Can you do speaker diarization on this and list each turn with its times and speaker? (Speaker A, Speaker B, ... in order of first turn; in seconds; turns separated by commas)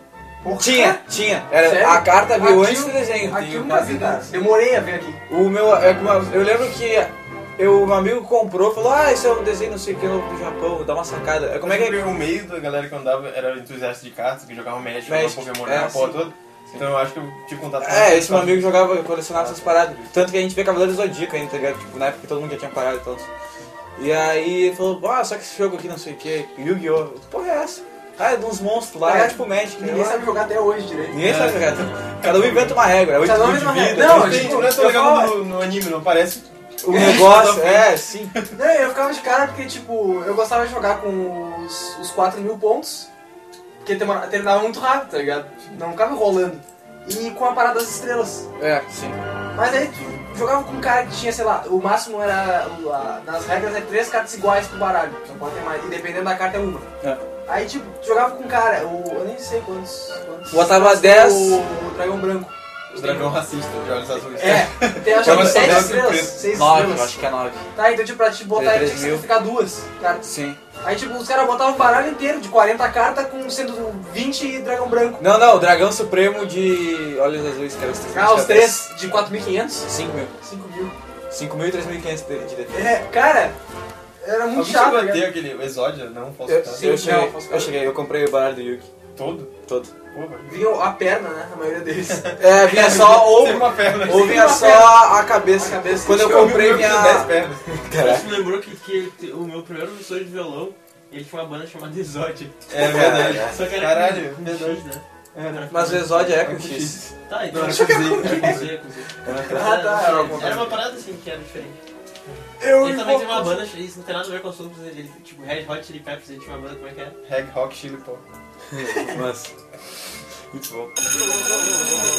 Speaker A: 0.4-5.2, Speaker B: 0.5-4.3, Speaker B: 5.3-12.1, Speaker C: 11.6-20.1, Speaker B: 15.0-16.9, Speaker B: 17.8-23.3, Speaker B: 23.9-30.3, Speaker A: 29.0-31.4, Speaker B: 31.1-34.8, Speaker C: 31.2-32.9, Speaker A: 33.2-35.4, Speaker C: 33.9-38.5, Speaker B: 36.8-38.4, Speaker A: 38.5-43.1, Speaker A: 43.8-48.5, Speaker B: 48.6-49.2, Speaker A: 49.5-56.9, Speaker A: 57.5-63.4, Speaker B: 60.5-61.6, Speaker C: 62.9-66.5, Speaker A: 64.3-67.2, Speaker B: 64.3-67.6, Speaker A: 67.7-70.3, Speaker B: 68.5-69.3, Speaker B: 70.2-70.6, Speaker A: 70.8-75.3, Speaker B: 75.2-78.8, Speaker A: 78.1-79.9, Speaker B: 79.8-80.3, Speaker A: 80.4-80.9, Speaker B: 81.3-82.9, Speaker A: 82.7-83.5, Speaker A: 84.2-85.3, Speaker C: 84.5-87.0, Speaker B: 86.5-88.9, Speaker A: 86.7-87.7, Speaker C: 89.1-89.5, Speaker B: 89.7-89.9, Speaker C: 90.1-90.7, Speaker A: 90.5-97.1, Speaker C: 92.1-94.7, Speaker B: 92.4-98.4, Speaker C: 96.0-97.7, Speaker D: 98.0-106.0, Speaker C: 102.7-104.8, Speaker B: 102.7-103.6, Speaker C: 105.3-109.0, Speaker B: 105.7-107.1, Speaker D: 107.3-111.8, Speaker A: 107.5-108.8, Speaker B: 109.2-110.1, Speaker A: 109.3-110.8, Speaker A: 112.6-113.7, Speaker D: 112.8-117.2, Speaker C: 117.2-118.2, Speaker B: 118.7-119.5, Speaker B: 120.5-120.9